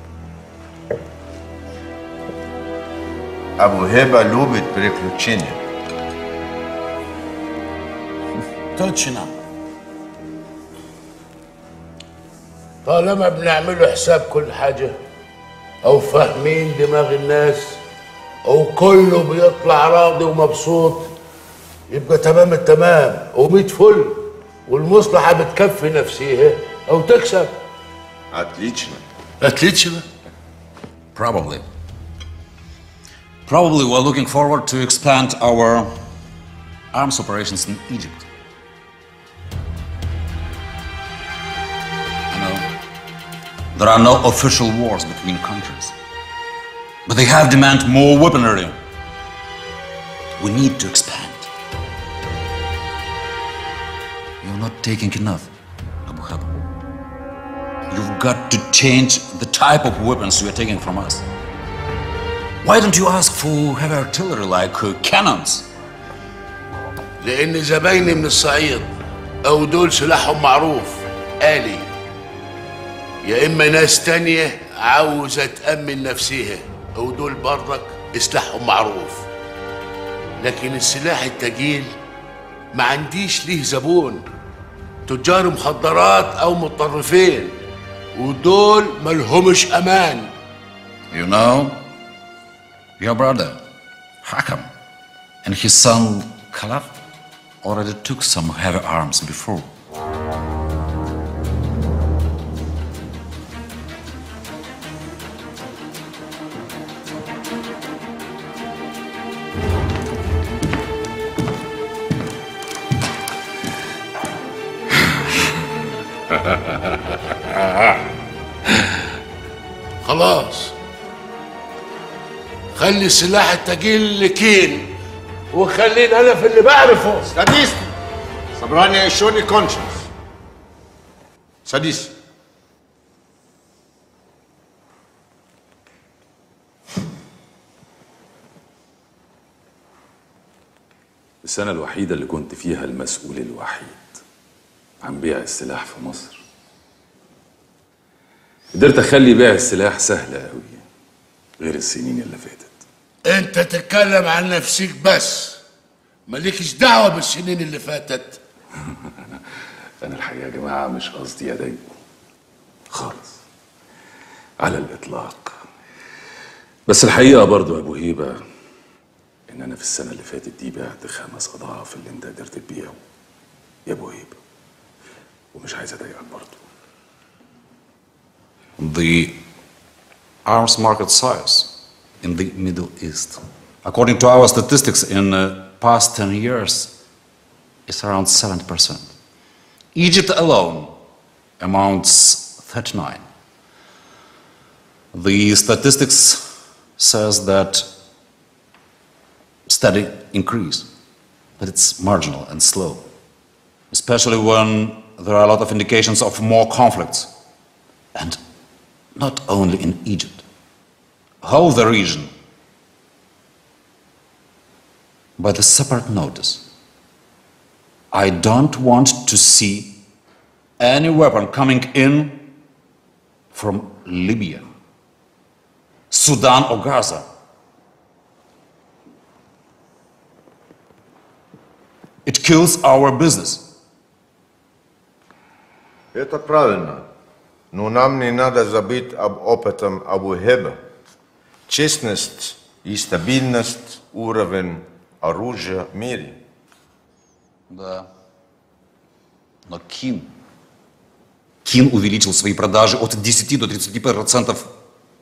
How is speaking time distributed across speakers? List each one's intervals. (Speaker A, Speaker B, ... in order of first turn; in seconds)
Speaker A: 3.6-5.6, 28.3-29.0, 127.3-127.8, 128.6-129.9, 131.6-132.1, 236.1-237.0, 237.7-240.8, 241.7-246.4
Speaker B: 8.8-9.3, 12.8-14.9, 15.8-17.8, 18.4-21.1, 21.9-27.5, 29.4-30.0, 67.2-68.9, 69.4-71.9, 73.2-79.3, 80.4-81.9, 82.7-84.2, 85.0-87.6, 88.1-90.3, 120.0-120.7, 122.7-124.9, 125.5-127.3, 153.2-155.6, 156.3-158.4
Speaker C: 31.1-31.6, 33.5-35.9, 36.9-38.2, 42.3-42.7, 43.7-45.9, 47.0-48.8, 50.4-51.5, 54.4-55.5, 56.1-56.5, 57.9-61.2, 62.6-65.7, 91.1-91.8, 93.0-93.6, 94.2-94.7, 95.4-96.9, 97.6-99.7, 178.8-179.3, 180.4-186.9, 187.9-189.1, 189.9-190.9, 191.6-193.2, 195.1-196.5, 197.0-197.8, 199.7-200.8, 201.6-203.0, 203.9-207.3, 209.2-210.4, 211.4-212.3, 215.4-216.7, 218.1-220.0, 220.8-222.5, 223.5-224.6, 226.1-227.2, 232.2-233.6, 247.7-248.1, 249.7-250.3, 251.6-254.7
Speaker D: 141.4-144.0, 145.0-146.4, 148.7-150.8, 151.6-152.8, 160.0-161.8, 162.9-163.3, 164.6-165.5, 166.9-168.4, 169.5-172.9, 173.8-174.4, 175.5-176.6